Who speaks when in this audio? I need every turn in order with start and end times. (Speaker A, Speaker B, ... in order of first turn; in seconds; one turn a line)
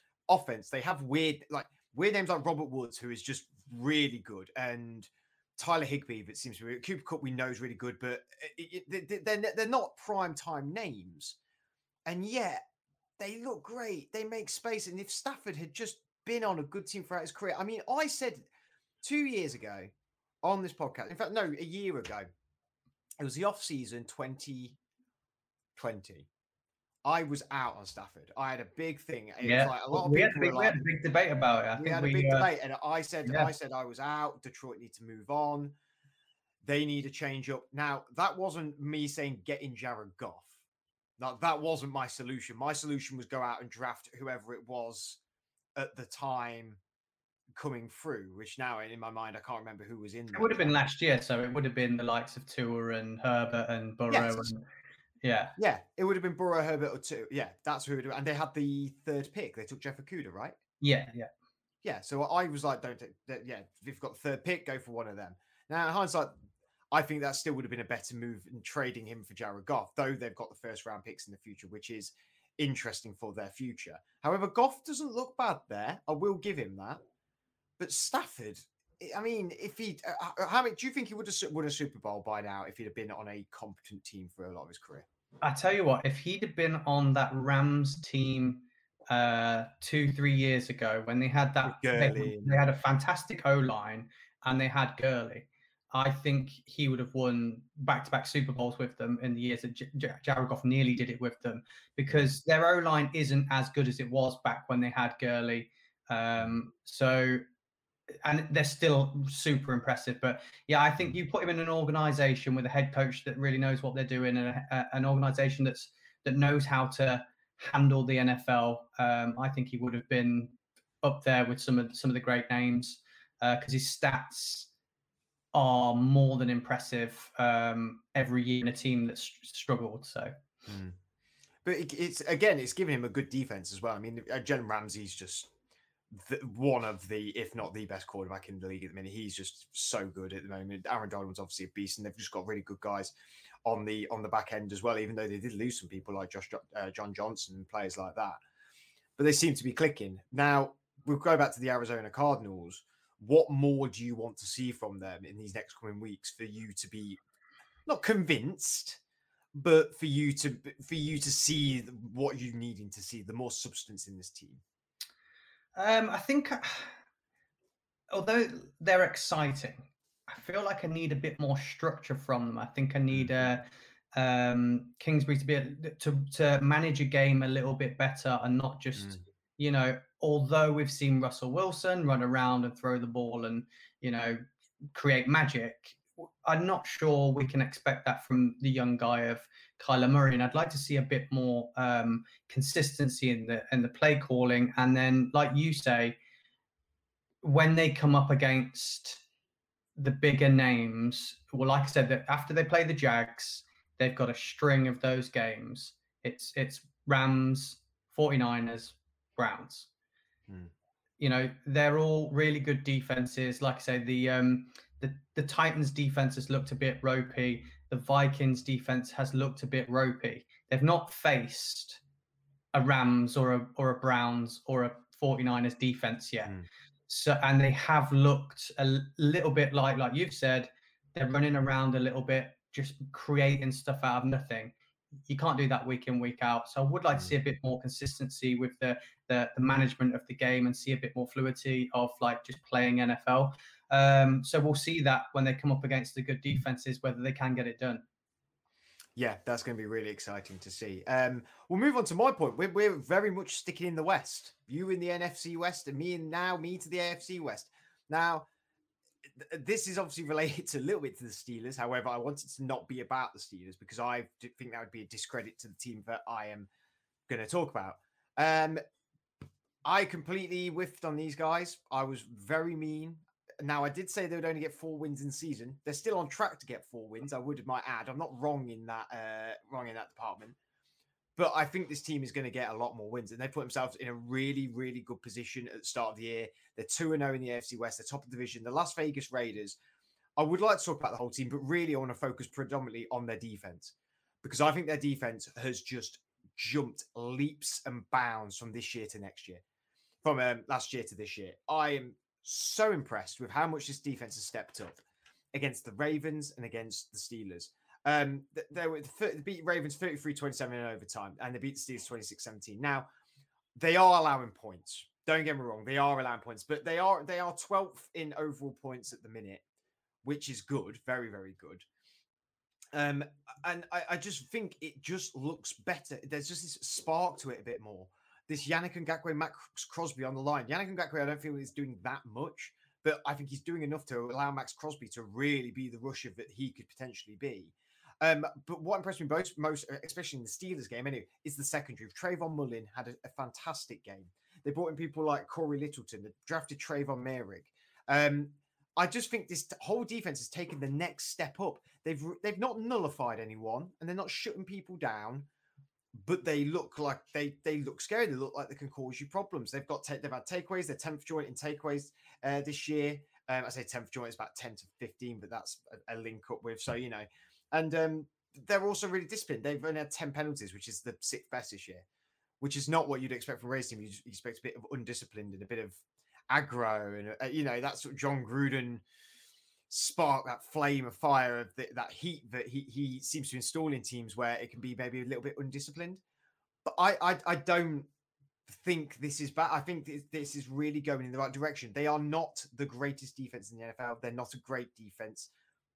Speaker A: 0.3-11.4
Speaker A: 12.1-12.6
Speaker A: 13.2-18.5
Speaker A: 19.0-19.9
Speaker A: 20.4-22.3
Speaker A: 23.2-24.8
Speaker A: 25.8-26.3
Speaker A: 27.1-30.9
Speaker B: 29.4-32.5
Speaker A: 31.8-35.8
Speaker B: 33.2-33.5
Speaker A: 36.6-40.6
Speaker A: 41.2-45.2
Speaker A: 45.8-46.8
Speaker A: 47.5-50.8
Speaker B: 50.3-54.6
Speaker A: 54.1-54.5
Speaker B: 55.2-55.5
Speaker A: 55.6-60.6
Speaker B: 60.8-61.3
Speaker A: 61.8-66.3
Speaker A: 66.9-77.0
Speaker A: 77.8-85.1
Speaker B: 85.4-107.4
Speaker A: 91.7-92.6
Speaker A: 102.1-102.4
Speaker B: 108.2-124.7
Speaker B: 125.5-130.3
Speaker A: 130.7-131.0
Speaker A: 131.6-135.5
Speaker A: 136.1-143.1
Speaker A: 143.7-148.4
Speaker A: 149.2-157.2
Speaker A: 157.9-159.0
Speaker A: 159.5-164.6
Speaker B: 165.8-166.9
Speaker B: 168.1-184.4
Speaker A: 173.1-173.5
Speaker A: 179.0-179.2
Speaker B: 184.9-196.2
Speaker B: 197.4-199.2
Speaker B: 200.0-209.9
Speaker B: 211.2-222.0
Speaker B: 222.7-226.5
Speaker B: 227.1-234.8
Speaker B: 235.3-248.0
Speaker A: 249.2-258.5
Speaker A: 259.3-266.7
Speaker A: 267.3-268.8
Speaker A: 269.9-280.6
Speaker A: 281.4-289.8
Speaker A: 290.4-299.6
Speaker A: 300.2-305.0
Speaker A: 305.5-313.1
Speaker A: 313.8-319.6
Speaker A: 320.2-321.9
Speaker A: 322.9-355.5
Speaker A: 356.1-372.1
Speaker A: 372.6-379.0
Speaker A: 379.9-386.2
Speaker A: 386.9-388.1
Speaker A: 388.7-395.5